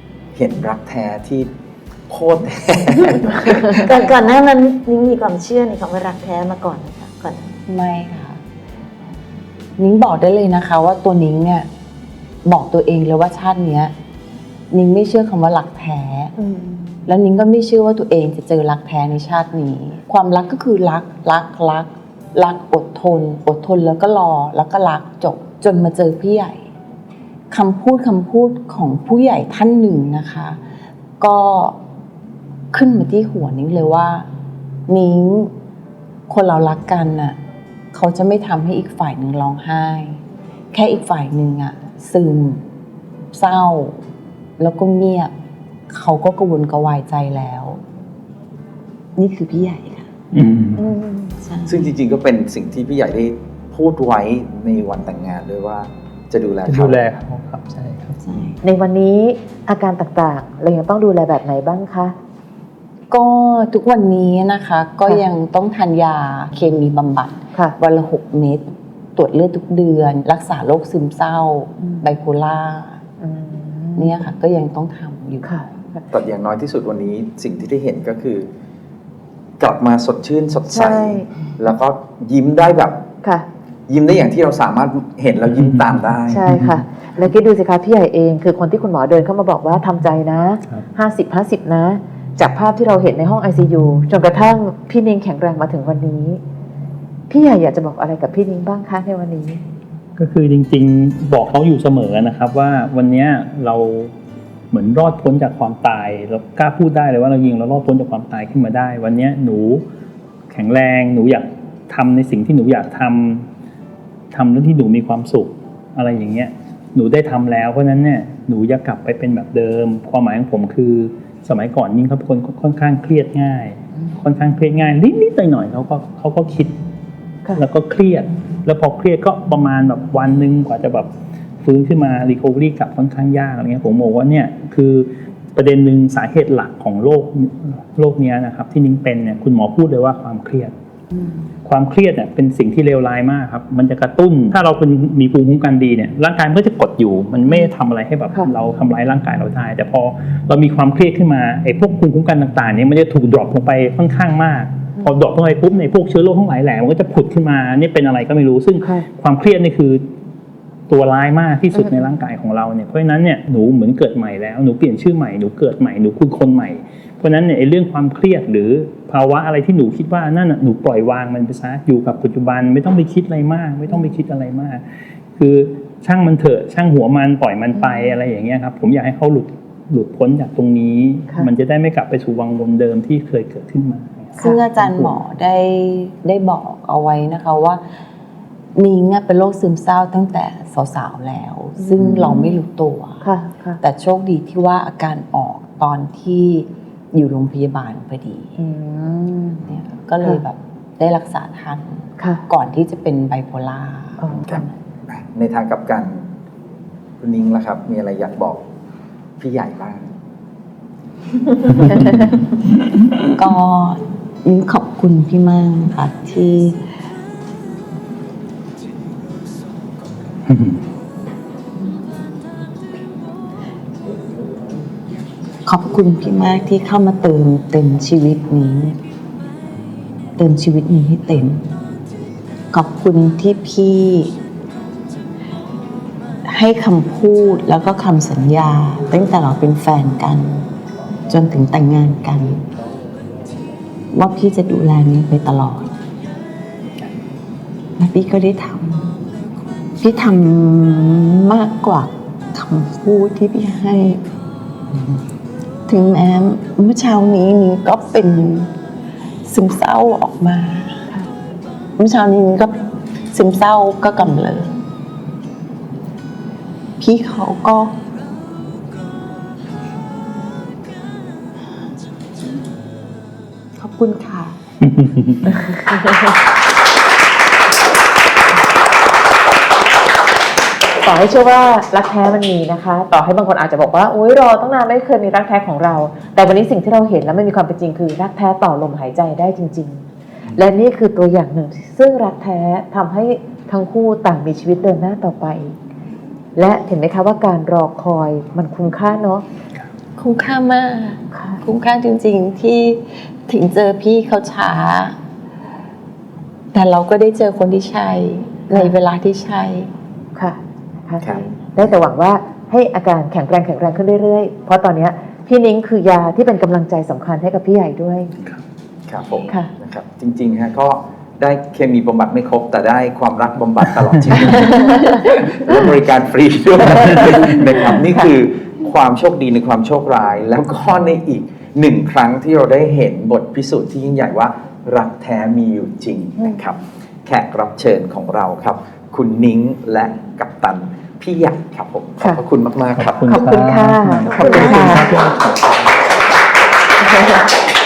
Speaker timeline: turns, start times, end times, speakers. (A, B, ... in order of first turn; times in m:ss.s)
0:00.3-0:01.5 A
0:02.1-0:04.0 A
0:03.8-0:07.5 B
0:07.7-0:08.4 C
0:09.8-0:11.7 C
0:12.4-0:13.9 C
0:14.7-0:16.3 C
0:16.4-0:17.1 D
0:17.1-0:26.6 C
0:27.5-0:30.6 C
0:31.2-0:31.8 C
0:32.7-0:34.2 C
0:34.9-0:35.5 C
0:36.3-0:37.4 C
0:37.9-0:40.2 C
0:40.7-0:42.6 C
0:43.3-0:44.0 C
0:44.6-0:45.3 C
0:45.9-0:47.8 C
0:49.2-0:50.1 C
0:50.3-0:50.8 E
0:50.8-0:51.4 D
0:51.4-0:51.9 C
0:51.7-0:57.0 A
0:56.6-0:58.2 E
0:58.2-0:58.6 C
0:58.6-1:02.1 D
1:03.1-1:13.0 C
1:13.2-1:14.1 D
1:14.0-1:15.5 C
1:15.4-1:16.1 D
1:16.1-1:18.5 A
1:19.6-1:23.0 A
1:20.7-1:21.3 D
1:23.9-1:26.5 A
1:26.3-1:36.4 D
1:26.5-1:26.8 E
1:37.3-1:39.6 D
1:40.2-1:44.1 E
1:44.7-1:49.8 E
1:50.5-1:53.4 E
1:54.3-2:06.7 E
2:07.6-2:11.1 E
2:11.6-2:20.7 E
2:21.6-2:40.0 E
2:40.9-2:54.8 E
2:55.4-3:05.1 E
2:57.8-2:58.1 D
3:04.4-3:07.8 C
3:08.8-3:13.2 C
3:11.8-3:12.3 D
3:13.2-3:13.8 D
3:13.8-3:18.6 C
3:18.6-3:19.6 D
3:19.6-3:24.8 C
3:24.2-3:24.6 D
3:24.5-3:26.2 A
3:27.2-3:28.6 A
3:29.4-3:30.1 A
3:33.3-3:36.8 C
3:45.6-3:49.0 C
3:50.4-3:51.8 C
3:52.7-3:54.4 C
3:56.4-4:00.7 C
4:01.3-4:02.7 C
4:04.1-4:05.9 C
4:08.0-4:09.2 C
4:10.0-4:14.2 C
4:15.9-4:18.7 C
4:19.4-4:21.0 C
4:22.0-4:22.8 C
4:23.3-4:24.7 C
4:27.0-4:28.0 C
4:33.8-4:34.6 C
4:34.8-4:35.6 E
4:35.5-4:36.0 D
4:41.0-4:55.7 D
4:56.6-4:59.4 D
5:00.2-5:05.2 C
5:01.3-5:01.6 D
5:06.7-5:09.9 C
5:10.3-5:18.3 D
5:19.1-5:43.6 A
5:24.4-5:25.2 D
5:27.0-5:28.3 D
5:42.9-5:45.6 E
5:43.3-5:45.1 D
5:44.3-5:44.9 B